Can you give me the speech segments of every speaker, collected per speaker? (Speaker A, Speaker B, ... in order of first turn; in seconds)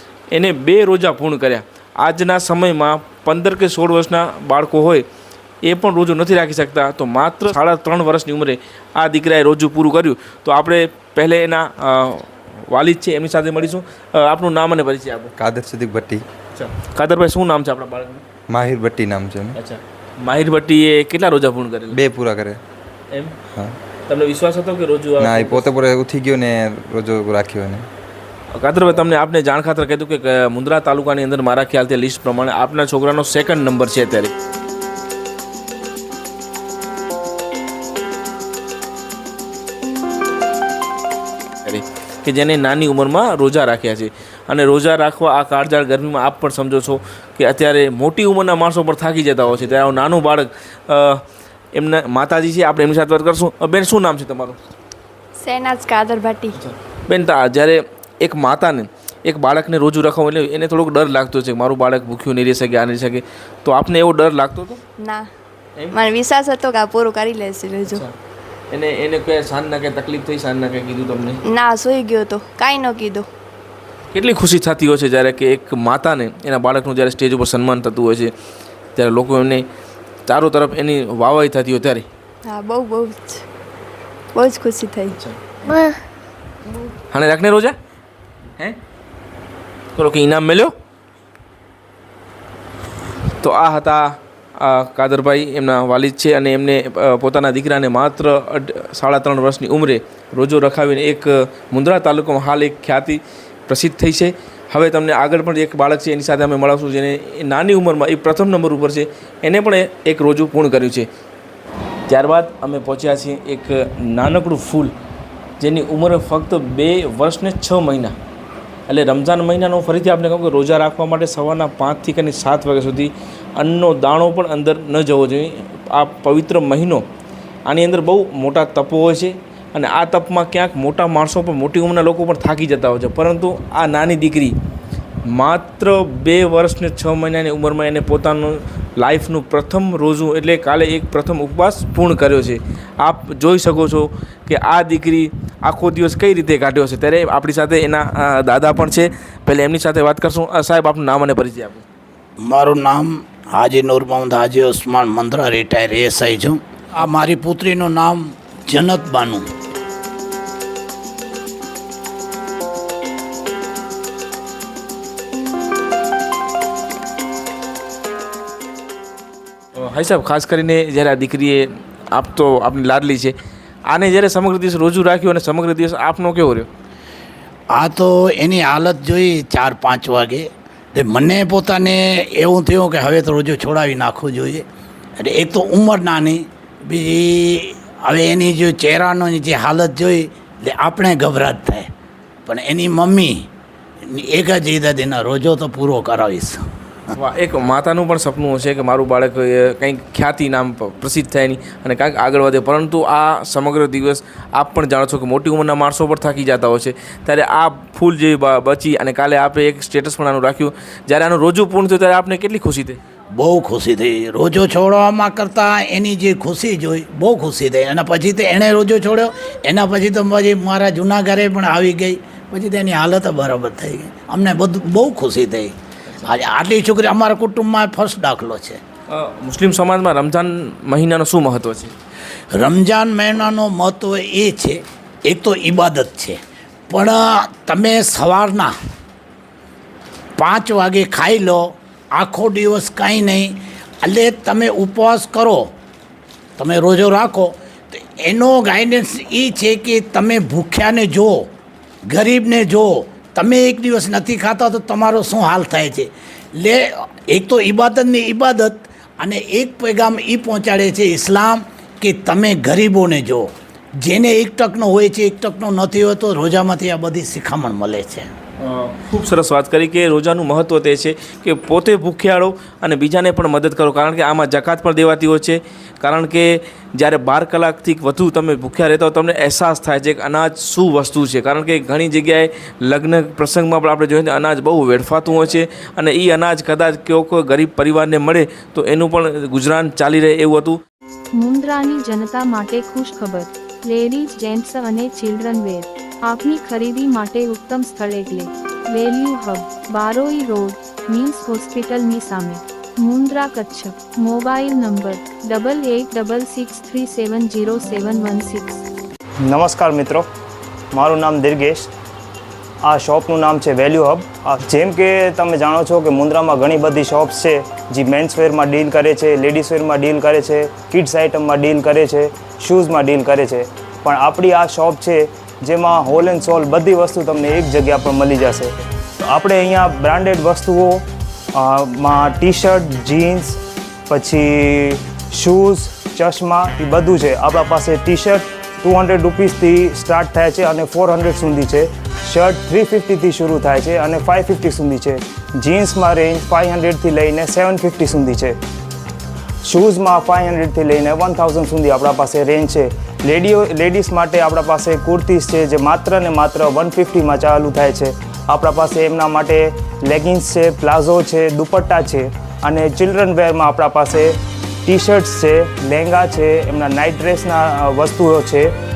Speaker A: 0.3-5.1, 5.7-15.3, 16.5-18.2, 19.6-22.0, 24.1-25.7, 28.5-34.3, 41.6-51.2, 51.8-54.6, 56.5-64.8, 65.8-66.0, 67.9-68.1, 68.7-71.4, 74.1-78.3, 79.0-79.7, 80.3-82.1, 85.1-85.4, 87.1-87.8, 90.0-90.7, 93.4-111.1, 112.1-114.9, 115.6-118.2, 118.9-127.0, 127.7-134.6, 135.3-151.8, 169.8-173.3, 173.9-176.7, 197.1-213.0, 229.1-231.9, 268.6-290.8
Speaker B: 15.4-16.2, 18.5-19.6, 21.9-22.6, 25.2-27.9
Speaker C: 55.4-56.6, 65.0-65.3, 65.9-68.0, 71.5-73.3, 82.5-83.4, 84.3-85.1, 85.7-86.0
Speaker D: 152.4-159.5, 177.7-184.7, 185.2-191.9, 192.5-193.4, 194.1-196.6, 213.3-228.8, 232.5-236.4, 236.9-238.7, 240.4-241.7, 242.2-245.7, 246.6-251.5, 252.1-263.5, 264.0-268.3
Speaker E: 291.4-308.8
Speaker F: 309.5-310.3, 310.9-311.9, 312.9-331.0, 331.6-348.6, 349.6-364.3, 364.9-368.7